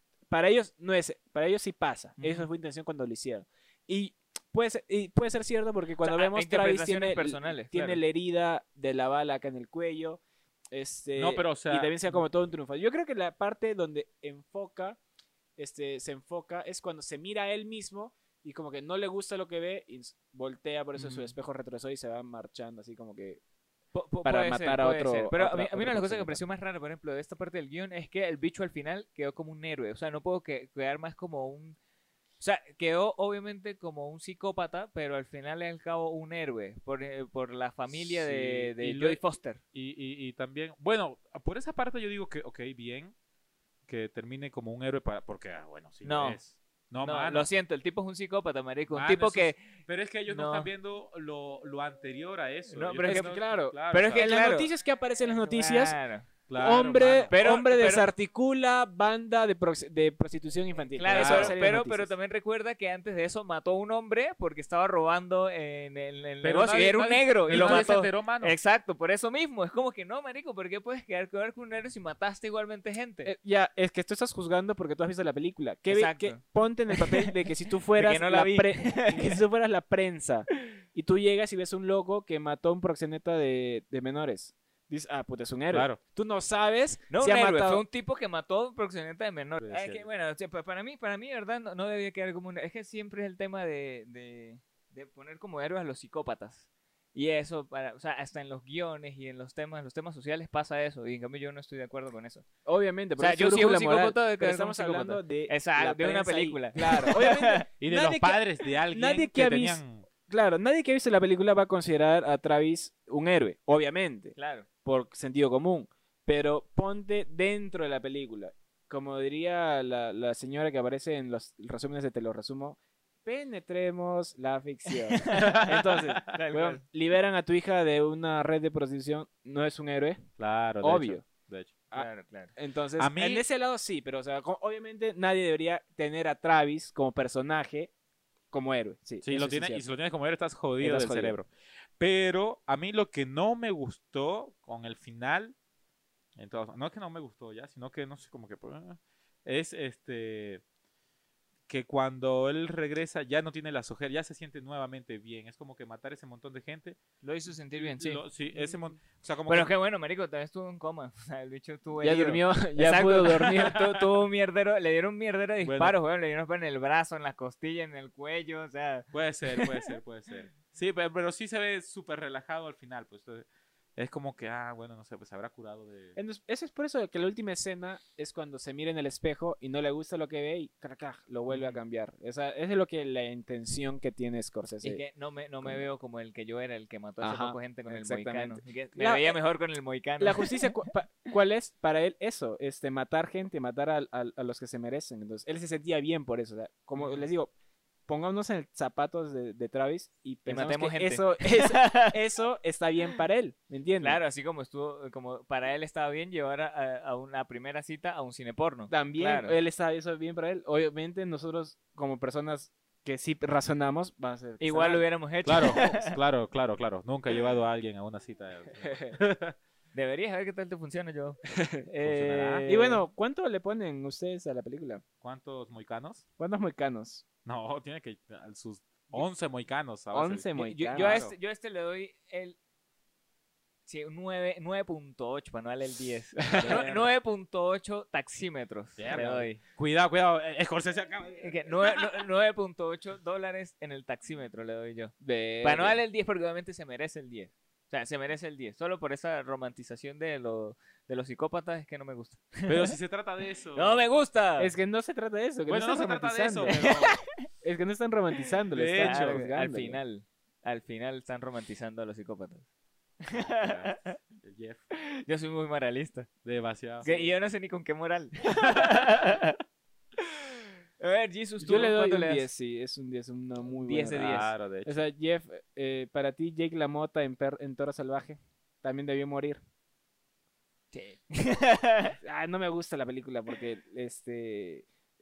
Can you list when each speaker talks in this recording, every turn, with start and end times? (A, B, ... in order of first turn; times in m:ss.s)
0:00.3-0:10.2 A
0:02.2-0:02.5 B
0:06.0-0:08.0 B
0:10.7-0:15.0 A
0:11.2-0:11.9 C
0:15.6-0:23.4 A
0:21.0-0:21.4 B
0:24.0-0:31.8 B
0:24.2-0:26.4 A
0:32.4-0:39.6 B
0:37.9-0:39.2 C
0:39.7-0:43.1 C
0:43.9-0:47.5 C
0:46.0-0:46.4 B
0:47.0-0:49.6 B
0:48.9-0:54.3 C
0:50.3-0:50.7 B
0:52.7-0:54.7 B
0:53.0-0:56.0 A
0:55.4-0:56.3 B
0:56.5-0:57.3 C
0:56.6-1:02.1 A
0:57.3-0:58.1 B
1:00.9-1:13.3 B
1:01.1-1:01.6 C
1:06.4-1:08.6 C
1:07.5-1:07.9 A
1:13.2-1:27.8 A
1:15.9-1:19.4 B
1:25.7-1:26.0 C
1:27.1-1:42.4 B
1:29.6-1:30.1 C
1:42.7-2:10.3 A
1:43.2-1:47.7 B
1:47.8-1:50.1 C
1:54.4-1:54.7 B
2:04.9-2:06.8 B
2:05.3-2:06.2 C
2:10.4-2:11.8 C
2:10.8-2:11.2 A
2:11.9-2:17.9 A
2:11.9-2:12.5 B
2:13.0-2:13.4 C
2:18.5-2:19.9 A
2:19.2-2:25.6 C
2:20.8-2:21.4 A
2:26.4-2:30.6 C
2:31.7-2:37.0 C
2:37.2-2:38.2 B
2:37.8-2:39.7 C
2:39.5-2:49.9 B
2:42.0-2:43.8 A
2:43.6-2:44.1 C
2:45.6-2:46.0 C
2:49.1-2:56.2 C
2:56.2-3:05.0 A
3:01.5-3:01.8 B
3:04.8-3:10.7 B
3:07.2-3:09.4 A
3:10.2-3:17.5 A
3:18.1-3:24.2 A
3:20.5-3:22.2 B
3:24.0-3:29.6 B
3:28.9-3:35.0 A
3:34.6-3:36.2 B
3:35.4-3:39.6 C
3:38.8-3:39.2 A
3:39.9-3:43.0 B
3:41.5-3:41.8 A
3:42.0-3:42.7 C
3:42.7-3:45.0 A
3:45.2-3:46.2 C
3:46.4-3:47.2 A
3:47.4-3:51.4 C
3:50.1-3:51.2 A
3:50.6-3:52.6 B
3:53.9-3:59.6 B
3:56.5-3:57.1 A
3:56.7-3:56.9 C
3:59.0-4:02.3 C
4:01.4-4:13.0 B
4:05.2-4:06.0 A
4:12.7-4:14.0 C
4:13.7-4:14.7 B
4:14.6-4:16.9 A
4:15.7-4:17.2 C
4:16.7-4:17.2 B
4:17.6-4:20.0 A
4:18.7-4:19.4 C
4:19.0-4:22.7 B
4:23.2-4:24.2 B
4:23.3-4:24.9 C
4:24.9-4:26.3 B
4:26.4-4:27.3 C
4:27.0-4:29.6 B
4:28.6-4:29.3 C
4:30.2-4:32.5 B
4:31.6-4:39.6 A
4:33.8-4:34.5 B
4:34.2-4:35.0 C
4:40.9-4:42.2 B
4:42.2-4:44.9 A